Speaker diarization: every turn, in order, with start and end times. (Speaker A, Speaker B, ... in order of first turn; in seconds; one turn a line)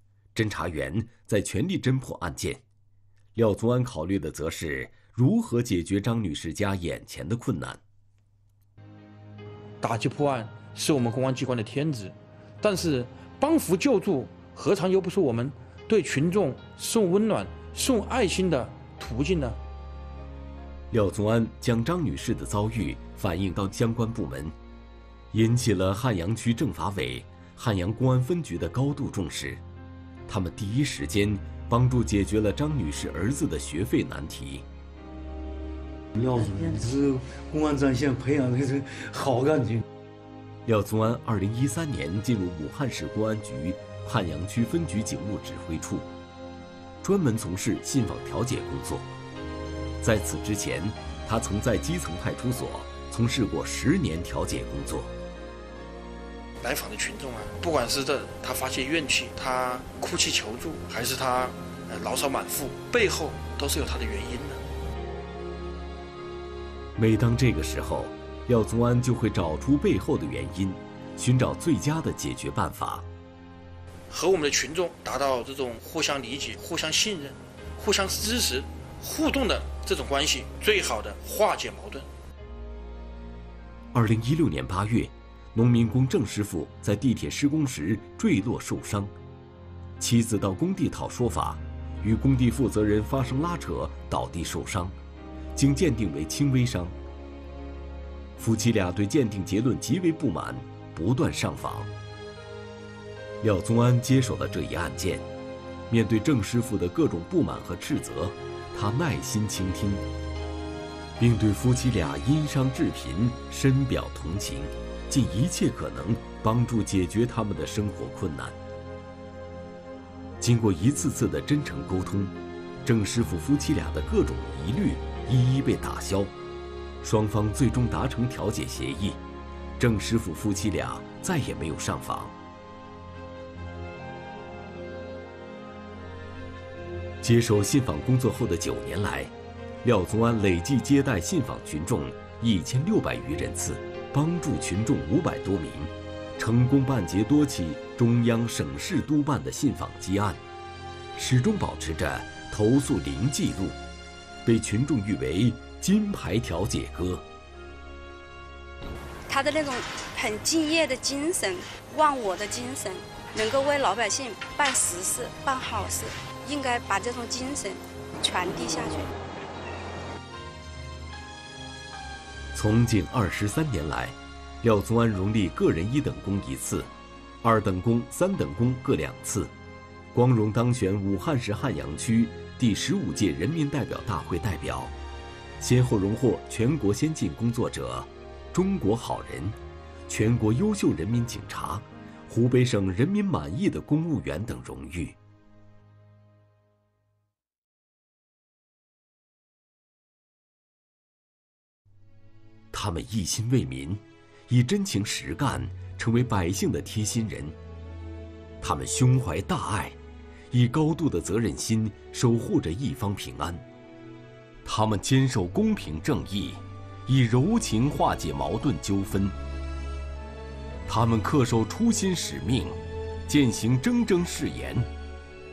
Speaker A: 0.3-2.6
Speaker A: 3.3-7.8
Speaker B: 9.8-19.6
Speaker A: 20.9-24.5
Speaker A: 25.3-29.6
Speaker A: 30.3-34.6
Speaker C: 36.3-36.6
Speaker C: 37.6-38.6
Speaker C: 39.2-39.8
Speaker A: 40.6-46.1
Speaker A: 47.0-49.1
Speaker A: 50.0-55.1
Speaker B: 56.6-64.6
Speaker A: 67.0-73.0
Speaker B: 74.1-82.0
Speaker A: 83.9-89.1
Speaker A: 90.0-94.9
Speaker A: 95.5-96.9
Speaker A: 98.4-101.9
Speaker A: 103.4-105.2
Speaker A: 105.9-110.0
Speaker A: 111.2-118.5
Speaker A: 120.4-126.3
Speaker A: 127.0-129.2
Speaker A: 129.8-132.3
Speaker A: 137.2-150.4
Speaker A: 151.1-153.8
Speaker A: 154.4-157.2
Speaker D: 159.3-169.1
Speaker A: 172.5-176.9
Speaker A: 177.4-179.5
Speaker A: 180.1-184.9
Speaker A: 185.6-189.6
Speaker A: 190.1-195.2
Speaker A: 202.7-207.6
Speaker A: 208.6-210.0
Speaker A: 210.5-213.6
Speaker A: 214.6-219.3
Speaker A: 220.9-224.9